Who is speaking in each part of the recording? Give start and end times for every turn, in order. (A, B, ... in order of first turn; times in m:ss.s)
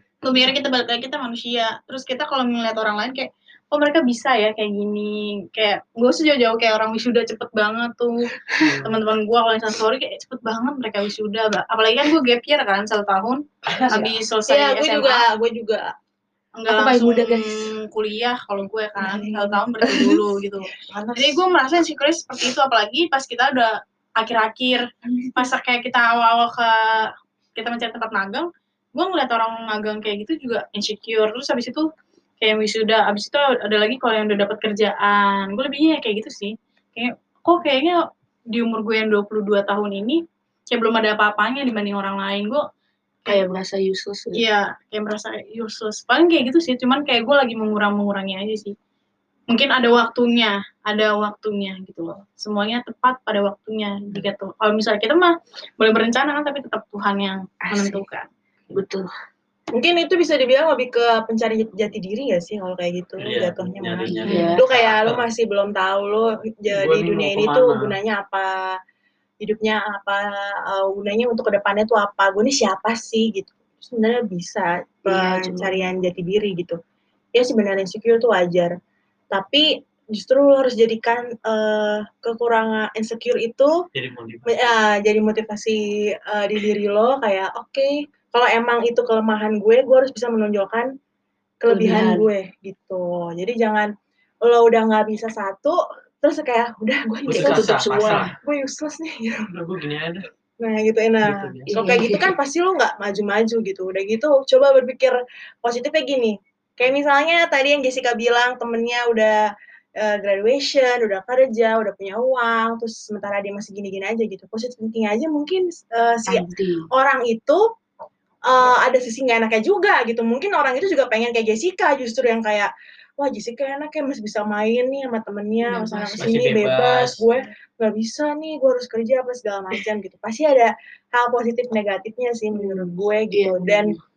0:00.2-0:08.3 A
0:08.6-0:09.0 B
0:08.8-0:15.2 A
0:13.7-0:14.1 C
0:14.5-0:15.9 D
0:16.6-0:31.9 A
0:16.7-0:17.6 C
0:19.1-0:20.2 C
0:20.8-0:21.4 D
0:25.1-0:25.5 C
0:32.4-0:42.6 A
0:43.2-0:44.4 C
0:44.3-0:48.7 A
0:49.5-0:58.3 A
0:57.6-0:58.0 C
0:58.7-0:59.1 C
0:59.7-1:08.6 D
1:03.2-1:05.3 E
1:04.1-1:04.6 C
1:06.7-1:08.0 B
1:09.4-1:16.8 D
1:15.0-1:15.9 C
1:17.3-1:18.7 D
1:19.3-1:23.7 D
1:23.9-1:24.8 E
1:24.5-1:30.9 D
1:31.6-1:33.9 D
1:31.7-1:32.3 C
1:34.4-1:39.5 D
1:37.3-1:38.3 E
1:37.3-1:38.4 C
1:39.5-1:40.3 B
1:40.6-1:49.4 D
1:41.2-1:41.8 B
1:41.7-1:42.3 C
1:50.0-1:57.6 D
1:56.3-1:56.9 C
1:58.4-2:14.0 D
2:05.6-2:06.3 C
2:06.2-2:07.2 E
2:12.5-2:14.0 C